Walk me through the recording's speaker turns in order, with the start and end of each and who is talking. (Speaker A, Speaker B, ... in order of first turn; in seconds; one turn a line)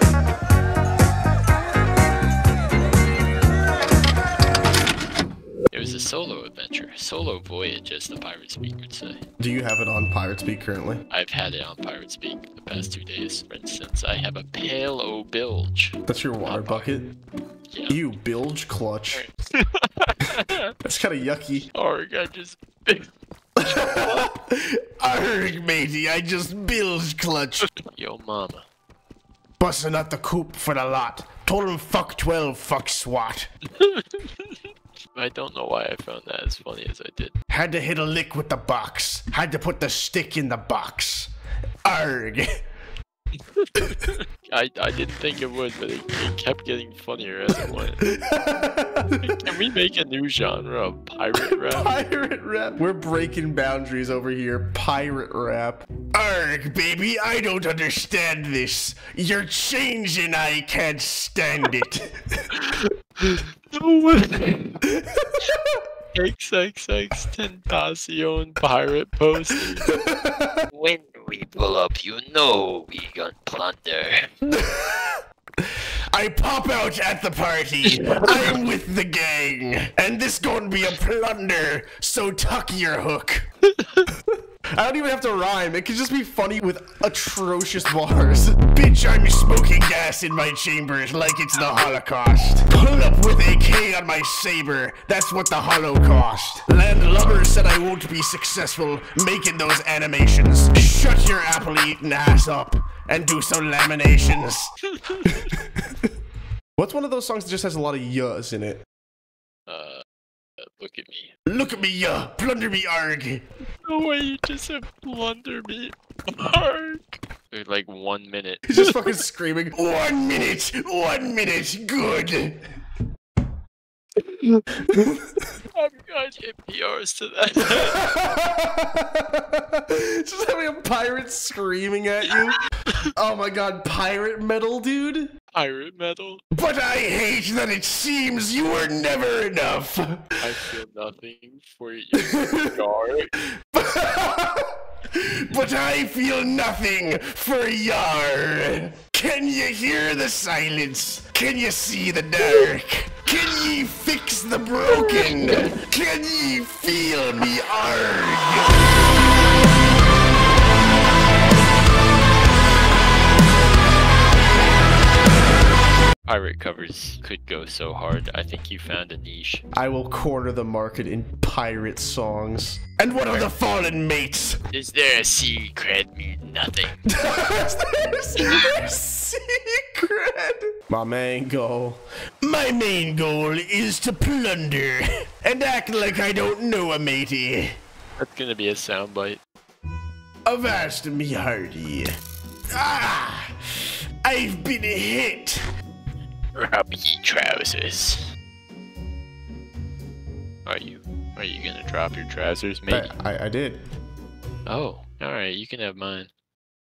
Speaker A: 5.7-9.2
Speaker B: 9.4-11.0
Speaker A: 11.1-16.9
Speaker B: 16.1-17.1
Speaker A: 17.7-18.0
Speaker B: 17.9-19.2
Speaker A: 19.1-20.7
Speaker B: 20.8-21.7
Speaker A: 21.7-23.1
Speaker B: 23.6-27.7
Speaker A: 27.8-28.6
Speaker B: 29.6-33.5
Speaker A: 33.8-34.5
Speaker A: 35.1-37.3
Speaker B: 37.5-41.3
Speaker B: 41.8-42.5
Speaker A: 43.5-48.0
Speaker B: 48.0-49.4
Speaker A: 49.2-52.0
Speaker B: 51.3-62.5
Speaker A: 62.5-64.8
Speaker B: 64.8-65.8
Speaker A: 66.1-69.9
Speaker B: 69.8-70.6
Speaker A: 70.7-74.3
Speaker B: 74.5-75.2
Speaker B: 76.1-83.5
Speaker A: 77.9-78.5
Speaker A: 83.8-84.1
Speaker B: 84.8-104.7
Speaker A: 104.9-105.4
Speaker B: 105.2-105.8
Speaker B: 106.8-108.8
Speaker A: 109.7-110.0
Speaker A: 110.6-111.3
Speaker B: 111.5-113.4
Speaker A: 113.8-119.1
Speaker B: 118.7-122.6
Speaker A: 124.2-124.6
Speaker B: 124.8-125.4
Speaker A: 125.7-128.0
Speaker B: 127.7-132.6
Speaker A: 132.3-133.1
Speaker B: 133.1-135.3
Speaker A: 135.5-136.4
Speaker B: 136.5-140.4
Speaker A: 140.4-143.3
Speaker B: 142.3-142.7
Speaker B: 143.6-158.8
Speaker A: 166.2-169.6
Speaker B: 169.7-174.6
Speaker A: 173.2-173.5
Speaker A: 174.7-177.1
Speaker B: 177.1-187.8
Speaker A: 178.4-178.8
Speaker A: 188.2-189.4
Speaker B: 190.4-192.1
Speaker B: 192.7-193.5
Speaker B: 194.2-195.6
Speaker A: 196.5-198.3
Speaker A: 200.7-203.1
Speaker B: 202.9-203.8
Speaker A: 204.7-206.3